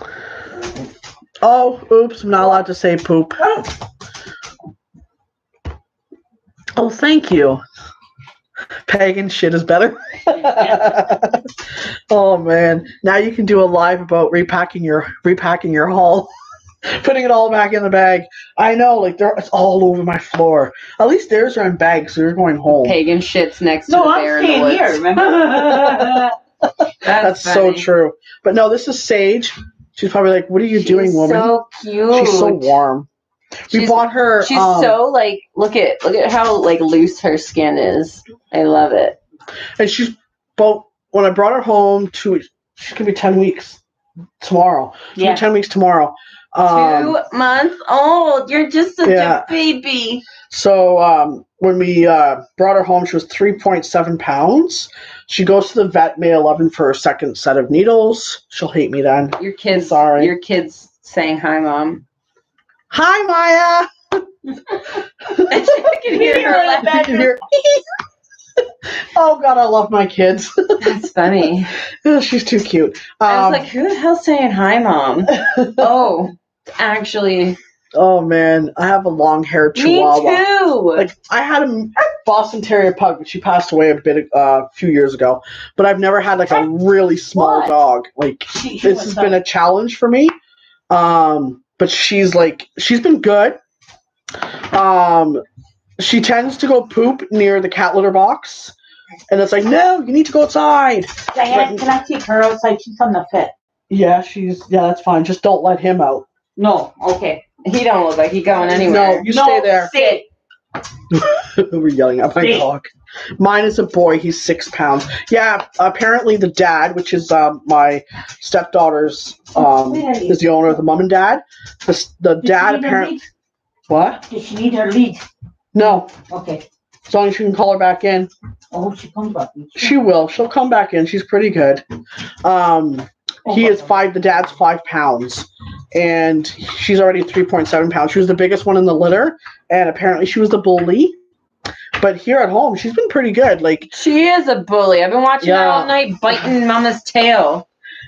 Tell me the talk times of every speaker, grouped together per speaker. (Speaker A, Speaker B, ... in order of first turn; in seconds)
Speaker A: 1.4-3.7, 6.8-7.6, 8.9-11.5, 12.1-16.3, 16.9-23.0, 25.2-26.3, 27.0-31.5, 32.1-33.1, 33.7-35.0, 39.8-43.8, 44.4-47.2, 49.0-49.5, 50.5-60.3, 62.9-64.2, 65.3-67.8, 68.6-71.0, 72.0-73.7, 75.3-75.9, 78.0-80.5, 81.0-90.3, 90.9-93.6, 94.7-95.4, 96.0-98.7, 99.3-101.9, 103.9-106.3, 108.8-109.9, 111.1-123.2, 123.9-124.2, 125.7-126.1, 127.1-128.3, 129.8-131.8, 132.4-141.2, 142.0-143.9, 145.4-146.0
Speaker B: 22.8-25.1, 27.0-27.9, 30.7-32.8, 33.7-39.2, 46.6-50.2, 59.4-62.0, 65.4-67.3, 70.8-71.7, 73.3-77.6, 79.8-81.1, 107.6-110.2, 143.9-147.7
Speaker C: 23.9-26.3, 45.2-45.5, 66.1-67.3, 87.4-87.7, 88.5-89.4, 101.3-103.5, 106.6-107.4, 108.6-110.2, 112.4-112.7, 119.5-120.7, 122.4-123.2, 124.3-125.3, 126.0-126.6, 128.7-130.0, 133.5-133.9